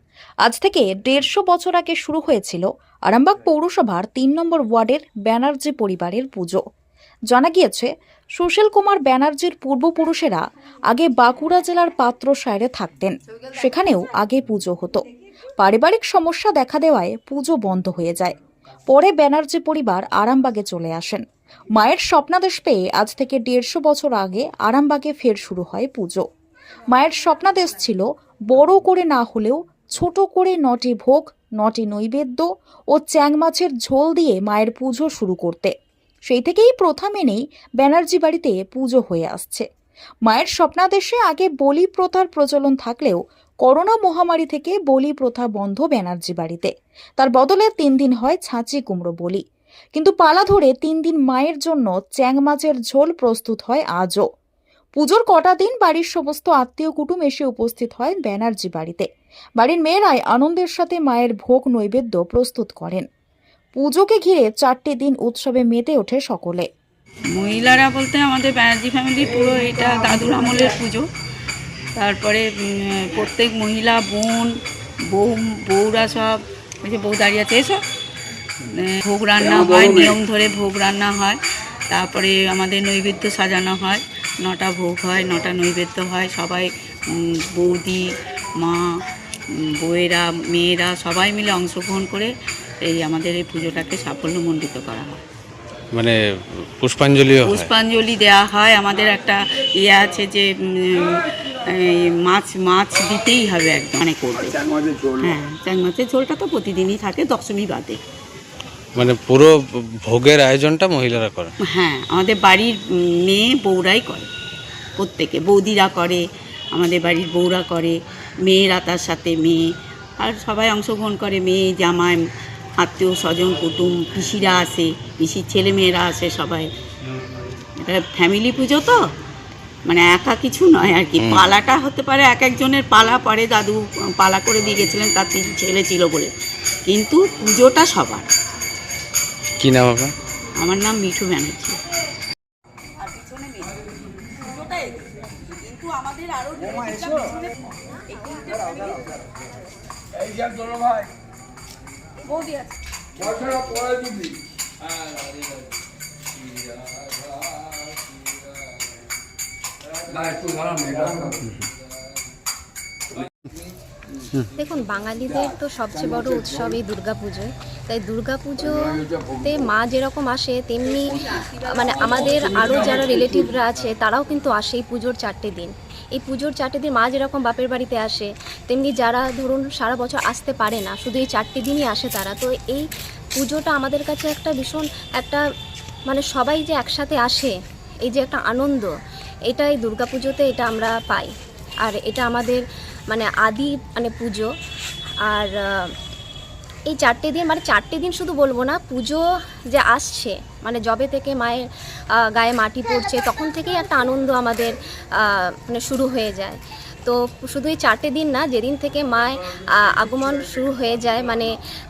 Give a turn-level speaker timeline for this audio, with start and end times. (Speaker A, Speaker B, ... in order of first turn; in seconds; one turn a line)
Speaker A: 0.4-6.6
Speaker A: 7.3-15.1
Speaker A: 15.6-18.4
Speaker A: 18.9-21.2
Speaker A: 21.8-26.2
Speaker A: 26.9-35.7
Speaker A: 36.3-39.6
Speaker A: 40.3-49.4
Speaker A: 50.0-54.2
Speaker A: 55.0-59.1
Speaker A: 59.6-63.1
Speaker A: 63.8-66.7
Speaker B: 67.3-71.1
Speaker B: 72.0-74.5
Speaker B: 75.1-77.8
Speaker B: 78.7-89.0
Speaker C: 79.4-80.2
Speaker B: 89.5-95.2
Speaker D: 95.9-96.2
Speaker D: 96.8-97.7
Speaker B: 97.4-104.6
Speaker C: 104.3-105.4
Speaker B: 105.2-108.0
Speaker D: 109.0-111.5
Speaker B: 111.7-114.3
Speaker B: 115.0-119.7
Speaker B: 120.2-122.2
Speaker B: 122.8-126.7
Speaker B: 127.8-129.0
Speaker B: 129.9-136.3
Speaker D: 131.2-131.5
Speaker B: 136.9-138.3
Speaker D: 139.6-140.1
Speaker B: 140.6-141.8
Speaker B: 143.0-143.8
Speaker B: 144.6-144.9
Speaker B: 145.6-147.4
Speaker B: 148.1-149.1
Speaker C: 150.3-151.1
Speaker B: 152.3-152.7
Speaker C: 153.3-154.3
Speaker C: 160.1-161.5
Speaker E: 164.6-185.4
Speaker E: 186.1-187.5
Speaker E: 188.1-188.9
Speaker E: 189.5-191.3
Speaker E: 191.8-194.5
Speaker E: 195.3-195.9
Speaker E: 196.9-211.5